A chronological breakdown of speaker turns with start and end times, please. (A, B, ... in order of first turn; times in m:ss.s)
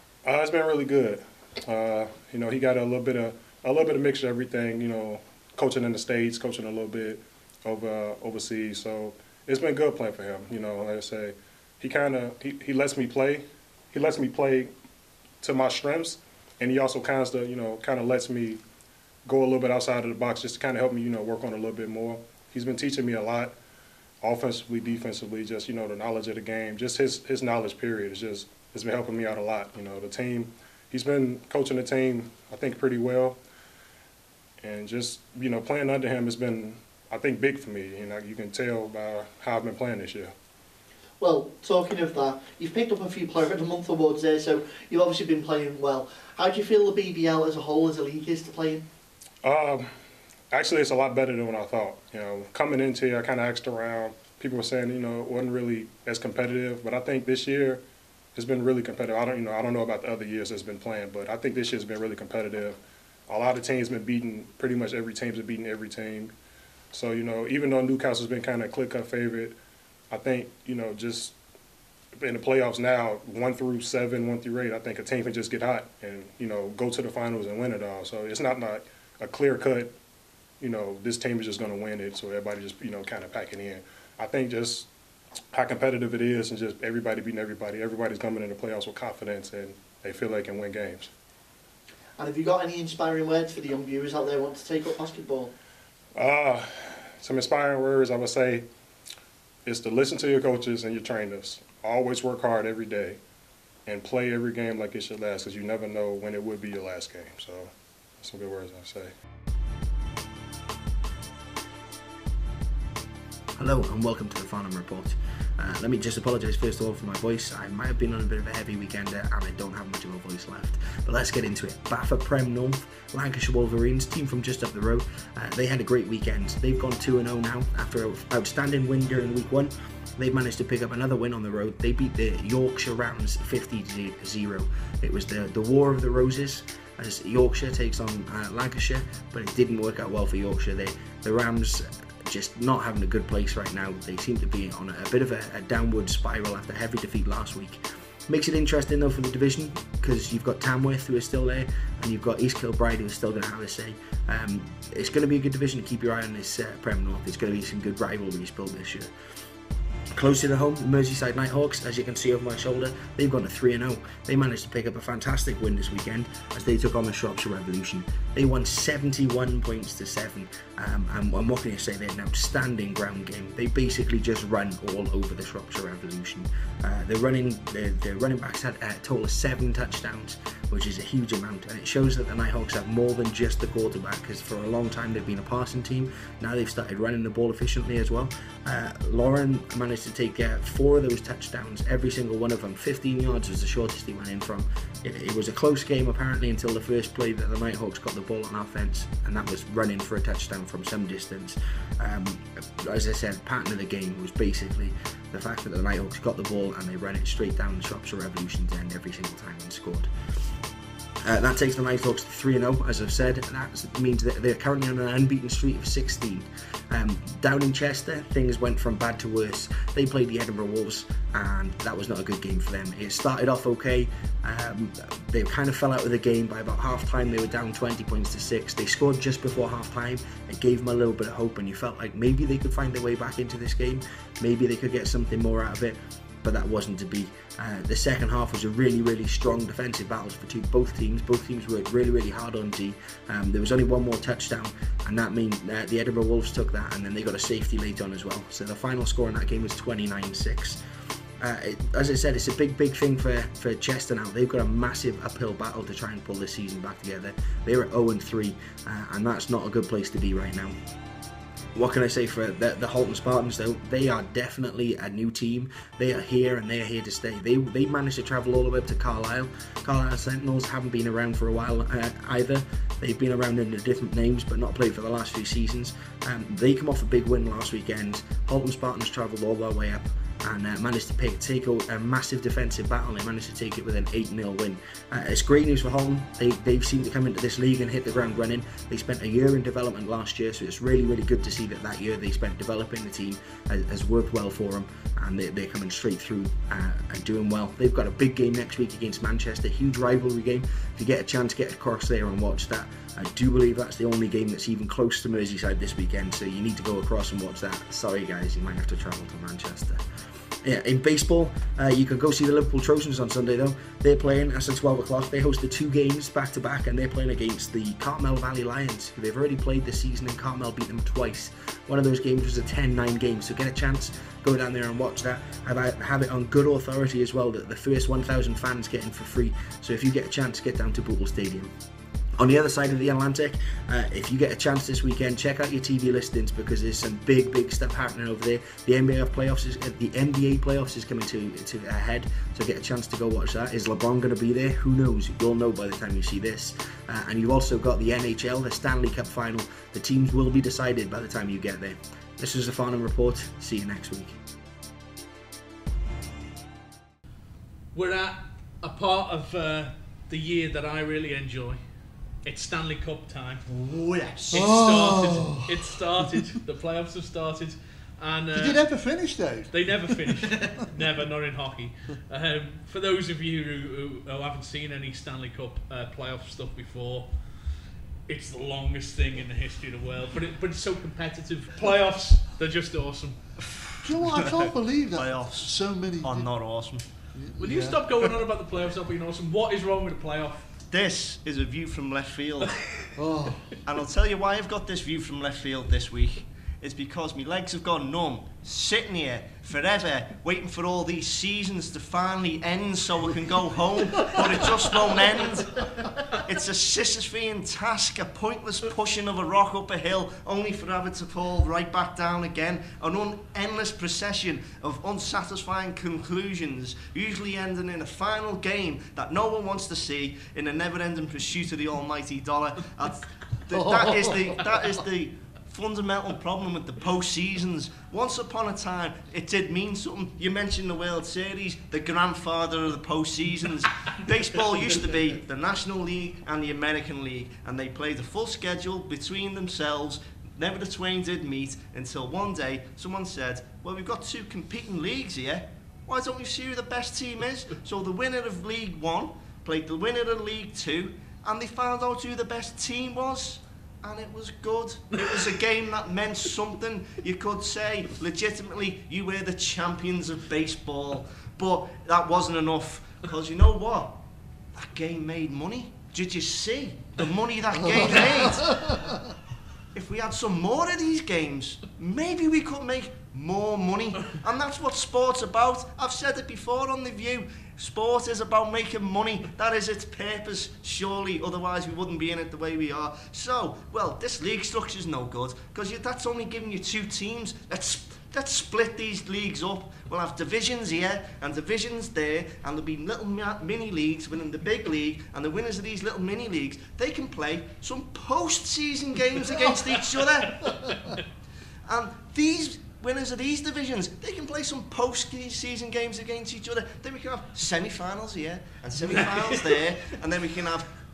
0:00.2-0:14.7 A
0:15.4-0:18.6 A
0:19.3-0:23.6 A
0:24.2-0:33.4 A
0:34.6-0:40.3 A
0:41.2-0:48.9 B
0:49.4-0:49.9 A
0:50.5-0:57.8 A
0:58.4-1:06.3 A
1:06.9-1:09.6 A
1:10.1-1:11.4 A
1:12.2-1:20.0 A
1:20.6-1:24.9 A
1:25.5-1:31.1 A
1:32.2-1:35.5 B
1:36.2-1:38.7 A
1:39.6-1:43.2 A
1:43.9-1:49.1 A
1:53.6-2:39.1 C
2:40.2-3:30.1 C
3:31.2-4:10.8 C
4:11.4-4:20.8 C
4:21.8-5:10.0 C
5:10.6-5:31.7 C
5:32.4-5:54.4 C
5:57.9-6:01.8 D
6:02.4-6:03.6 D
6:03.8-6:04.6 B
6:04.5-6:06.2 E
6:04.5-6:23.4 D
6:08.5-6:10.9 E
6:23.6-6:27.0 F
6:24.0-6:26.5 E
6:27.3-6:28.3 E
6:27.6-6:30.7 D
6:30.9-6:32.8 F
6:32.8-6:33.0 D
6:33.2-6:33.8 E
6:33.8-7:44.2 F
7:03.7-7:04.5 E
7:44.7-7:48.9 F
7:49.9-8:20.7 F
8:21.9-8:30.9 F